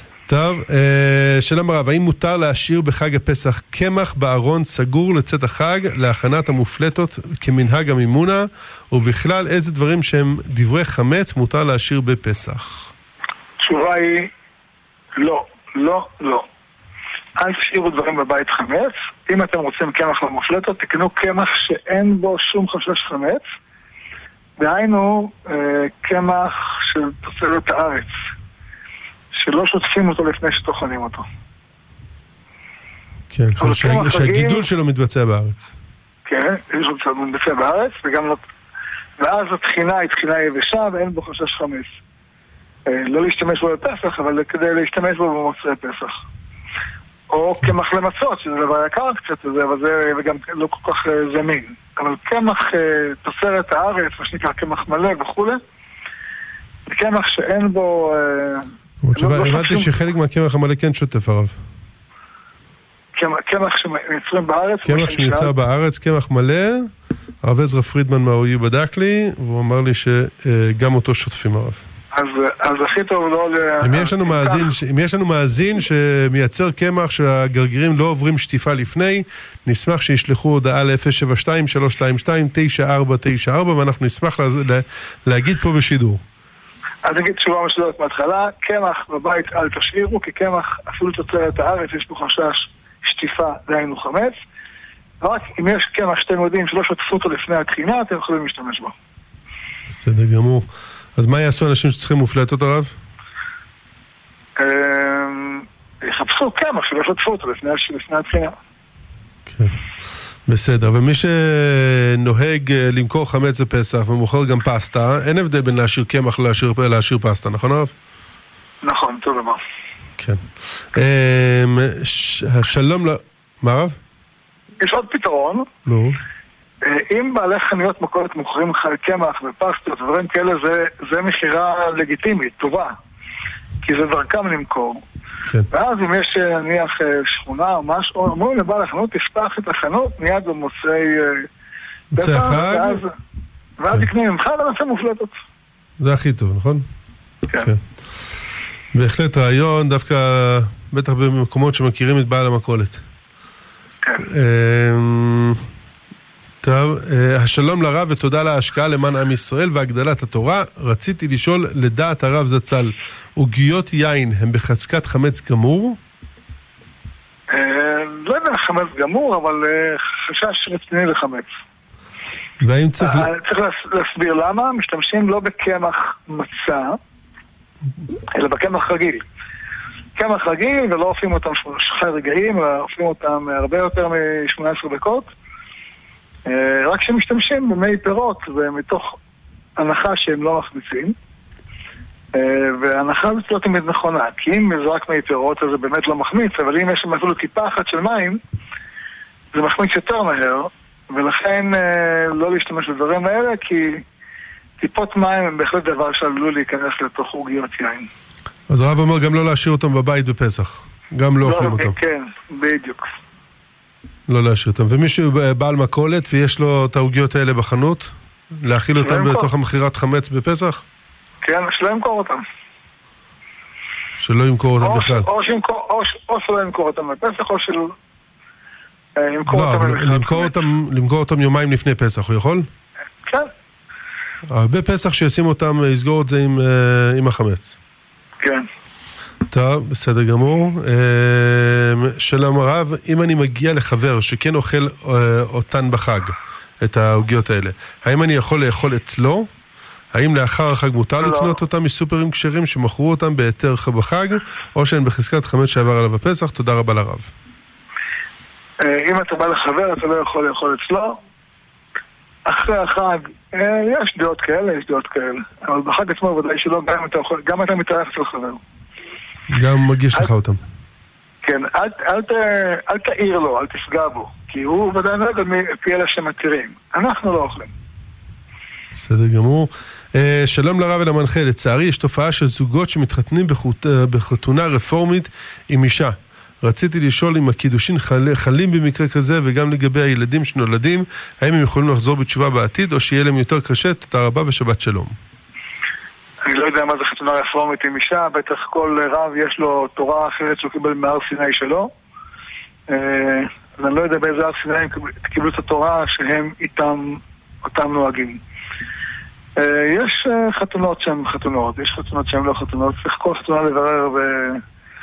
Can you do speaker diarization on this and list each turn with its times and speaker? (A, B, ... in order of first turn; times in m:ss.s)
0:00.3-0:12.9 A
0:13.6-0:14.3 B
0:15.2-0:16.5 B
0:17.4-0:23.5 B
0:24.6-0:28.2 B
0:29.3-0:31.2 B
0:33.3-0:35.7 A
0:33.6-0:34.6 B
0:36.3-0:38.4 B
0:39.2-0:41.9 B
0:42.9-0:46.2 B
0:47.3-0:55.6 B
0:56.9-0:59.9 B
0:59.0-1:01.5 A
1:03.2-1:05.5 B
1:04.8-1:06.9 A
1:07.4-1:11.8 A
1:12.1-1:14.7 B
1:13.8-1:26.2 A
1:27.0-1:34.4 B
1:35.2-1:38.9 B
1:39.9-1:42.9 A
1:44.6-1:48.6 B
1:49.5-1:49.8 A
1:50.5-1:57.9 A
1:58.8-1:59.6 B
2:00.2-2:04.0 A
2:04.8-2:05.7 B
2:05.8-2:06.2 A
2:06.8-2:13.0 B
2:13.8-2:15.0 B
2:15.7-2:21.5 B
2:22.2-2:23.0 A
2:22.2-2:23.1 B
2:23.8-2:25.3 B
2:26.0-2:26.8 A
2:27.6-2:27.8 A
2:28.9-2:33.0 A
2:34.2-2:35.6 A
2:36.6-2:46.0 A
2:47.5-2:51.5 B
2:52.6-2:53.3 A
2:53.0-2:57.0 B
2:58.3-2:59.2 B
3:00.2-3:05.3 B
3:06.5-3:09.2 B
3:09.8-3:11.2 B
3:12.3-3:18.4 B
3:19.5-3:24.0 B
3:24.8-3:28.1 B
3:28.7-3:32.0 A
3:31.4-3:33.1 B
3:34.3-3:40.8 A
3:39.0-3:39.5 B
3:41.4-3:42.4 B
3:44.2-3:45.3 A
3:44.8-3:47.9 B
3:49.2-3:50.5 B
3:49.5-3:52.7 A
3:53.2-3:53.5 B
3:54.5-3:57.8 A
3:58.4-3:58.7 B
3:59.5-4:09.5 A
4:10.1-4:17.3 A
4:11.2-4:11.6 B
4:18.8-4:21.2 B
4:22.4-4:28.6 B
4:29.5-4:30.6 A
4:31.4-4:37.7 B
4:38.9-4:55.2 A
4:56.4-5:01.9 B
5:02.9-5:08.4 B
5:09.6-5:14.6 B